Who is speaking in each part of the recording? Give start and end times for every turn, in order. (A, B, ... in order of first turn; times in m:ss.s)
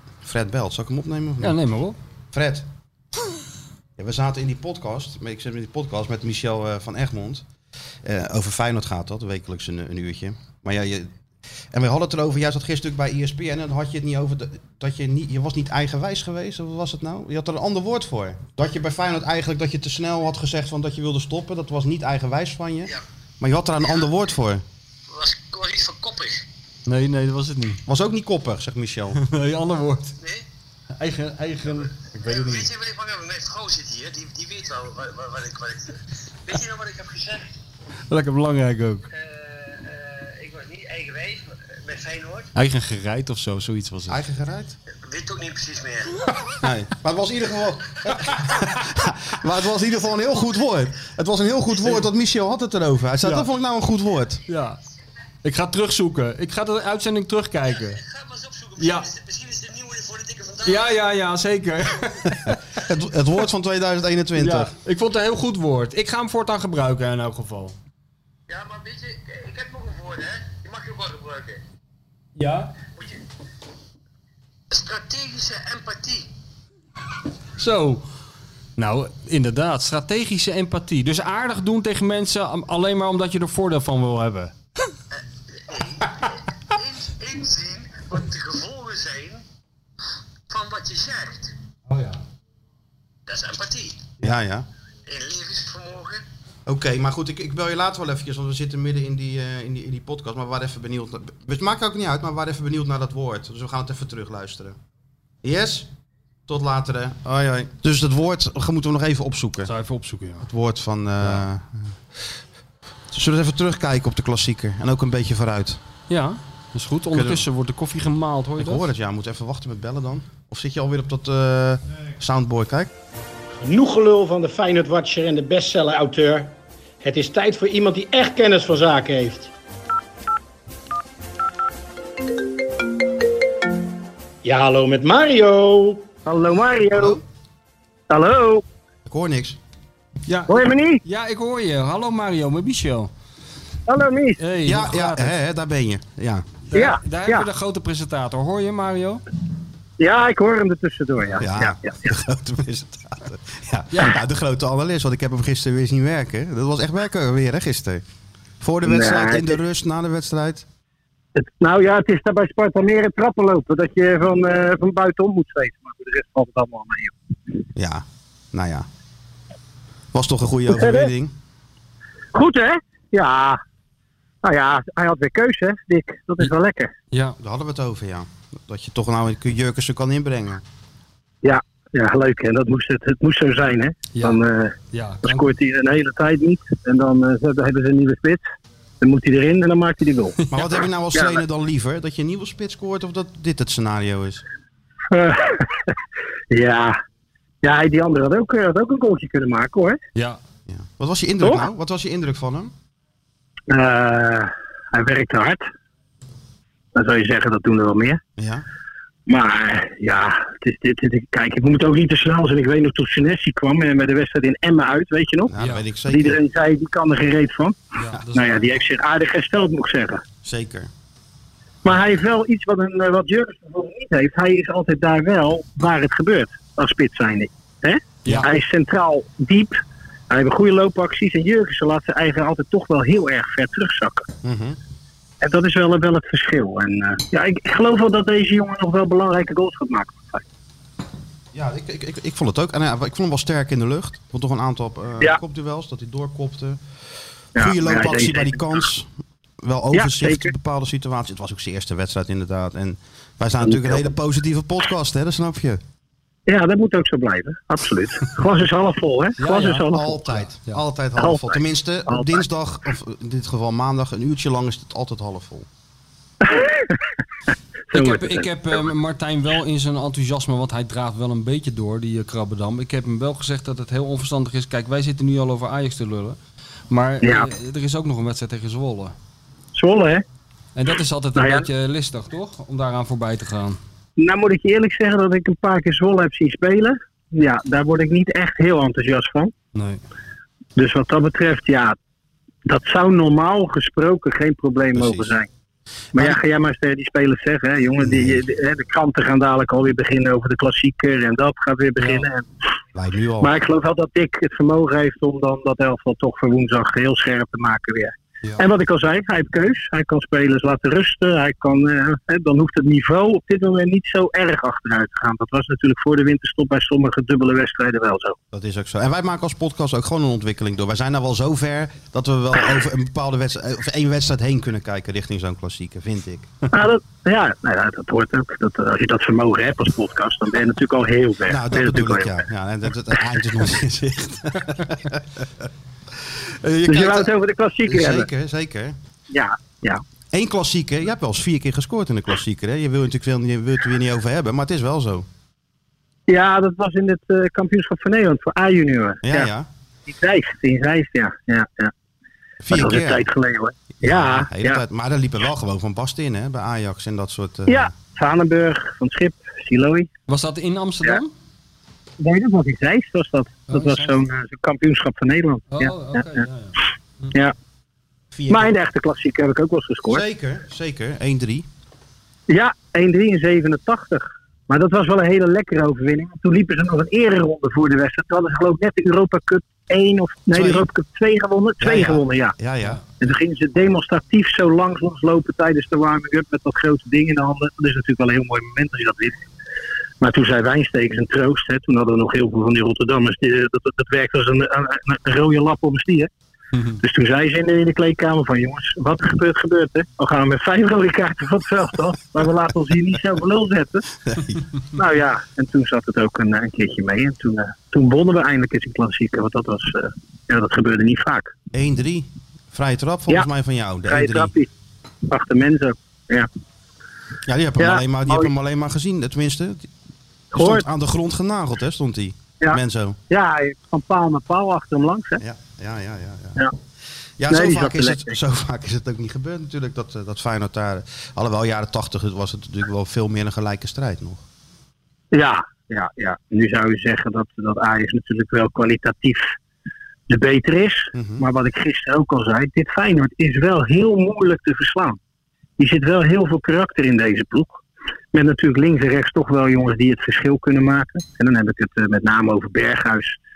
0:00.2-0:01.6 A
0:01.4-0:02.0 B
0:02.3-0:02.7 A
0:04.0-0:07.4 A
0:08.0-0:11.1 A
0:11.7-0:24.6 A
0:25.4-0:26.4 C
0:26.8-0:27.8 B
0:27.8-0:29.2 A
0:29.2-0:30.2 B
0:30.9-0:32.7 B
0:32.7-0:35.9 C
0:36.7-0:37.3 C
0:38.1-0:39.1 B
0:40.5-0:41.3 C
0:42.5-0:44.2 B
0:44.1-0:44.8 A
0:45.1-0:46.0 C
0:46.6-0:54.4 A
0:54.5-0:54.8 B
0:55.4-0:58.0 B
0:58.6-1:00.6 C
0:58.8-0:59.1 B
1:00.6-1:02.8 B
1:02.4-1:04.7 A
1:04.4-1:07.8 B
1:08.6-1:11.6 C
1:12.4-1:12.7 B
1:14.7-1:16.2 C
1:17.6-1:18.0 B
1:18.8-1:24.5 B
1:27.2-1:29.4 C
1:30.5-1:31.5 C
1:31.9-1:32.2 B
1:33.3-1:34.0 C
1:34.2-1:34.7 A
1:35.1-1:36.2 C
1:36.6-1:44.8 A
1:45.4-1:45.9 A
1:46.5-1:49.7 A
1:49.6-1:50.5 B
1:50.4-1:52.3 A
1:53.1-1:55.8 A
1:56.1-1:58.9 B
1:57.1-1:57.4 A
1:58.6-2:02.9 A
2:03.6-2:09.5 D
2:14.4-2:16.1 D
2:16.2-2:17.2 E
2:16.9-2:17.2 A
2:18.1-2:18.6 E
2:19.0-2:19.6 A
2:20.3-2:23.1 B
2:20.5-2:21.0 E
2:23.9-2:24.4 E
2:24.4-2:25.4 B
2:24.6-2:26.4 A
2:26.7-2:29.2 B
2:26.7-2:27.4 E
2:30.0-2:32.1 E
2:31.4-2:38.0 A
2:38.6-2:40.6 A
2:38.8-2:39.6 E
2:41.4-2:47.1 E
2:47.7-2:48.9 A
2:50.1-2:51.3 A
2:50.7-2:51.1 E
2:52.3-2:53.6 E
2:54.4-2:56.9 E
2:57.1-2:57.4 B
2:57.4-3:00.6 A
3:01.4-3:08.4 E
3:04.1-3:04.4 B
3:04.9-3:05.5 B
3:09.0-3:10.4 E
3:10.5-3:14.4 A
3:11.1-3:11.4 E
3:15.1-3:15.9 E
3:16.5-3:17.0 E
3:17.6-3:20.0 E
3:20.1-3:20.4 B
3:20.7-3:22.7 A
3:23.7-3:25.6 E
3:26.9-3:28.2 E
3:28.4-3:28.6 A
3:29.3-3:35.5 E
3:35.5-3:36.4 A
3:35.6-3:35.8 B
3:36.1-3:37.8 E
3:38.0-3:38.8 B
3:38.3-3:40.2 E
3:40.4-3:40.9 A
3:41.8-3:54.3 E
3:48.2-3:48.5 B
3:54.4-3:54.8 A
3:55.4-4:00.4 E
4:01.5-4:06.8 A
4:07.6-4:08.7 E
4:07.6-4:09.1 A
4:09.6-4:15.8 A
4:09.9-4:10.5 E
4:13.6-4:14.1 E
4:16.5-4:20.3 E
4:19.4-4:20.8 B
4:19.7-4:25.6 A
4:21.2-4:22.4 E
4:26.4-4:27.0 E
4:27.9-4:28.5 E
4:27.9-4:36.4 B
4:36.9-4:39.1 B
4:37.2-4:37.5 E
4:39.7-4:40.2 E
4:40.8-4:43.8 B
4:41.4-4:41.7 E
4:44.2-4:49.5 E
4:49.7-4:50.0 B
4:50.8-4:52.0 E
4:52.6-4:55.5 E
4:54.9-4:55.3 A
4:56.1-5:02.4 E
4:58.0-4:58.4 A
5:02.0-5:02.3 B
5:02.9-5:03.5 A
5:03.4-5:18.4 E
5:18.5-5:26.5 A
5:26.7-5:32.4 E
5:31.4-5:35.5 A
5:36.4-5:39.0 A
5:36.8-5:38.3 E
5:39.3-5:40.0 E
5:40.3-5:45.2 A
5:46.3-5:49.5 E
5:49.2-5:49.7 A
5:50.1-5:51.9 E
5:52.6-5:53.3 A
5:52.7-5:54.8 E
5:54.0-5:57.9 A
5:57.7-6:00.1 E
6:00.3-6:01.3 B
6:02.2-6:06.4 E
6:03.7-6:04.2 B
6:05.7-6:07.3 B
6:08.3-6:08.7 A
6:08.5-6:10.2 E
6:10.0-6:11.6 A
6:12.5-6:22.5 E
6:20.5-6:20.9 A
6:21.8-6:23.1 A
6:23.2-6:29.4 E
6:30.2-6:36.3 E
6:36.7-6:37.0 B
6:37.0-6:44.0 E
6:44.2-6:44.6 A
6:44.9-6:51.5 E
6:51.7-6:54.5 A
6:54.1-6:54.7 E
6:55.3-6:56.5 E
6:57.4-6:59.9 A
6:57.8-6:58.5 E
7:00.5-7:00.8 E
7:00.5-7:03.2 A
7:02.6-7:05.4 E
7:05.4-7:06.6 A
7:07.4-7:14.4 A
7:07.5-7:08.4 E
7:15.3-7:19.5 E
7:20.3-7:25.2 E
7:21.1-7:21.4 A
7:25.8-7:27.8 E
7:28.3-7:33.4 E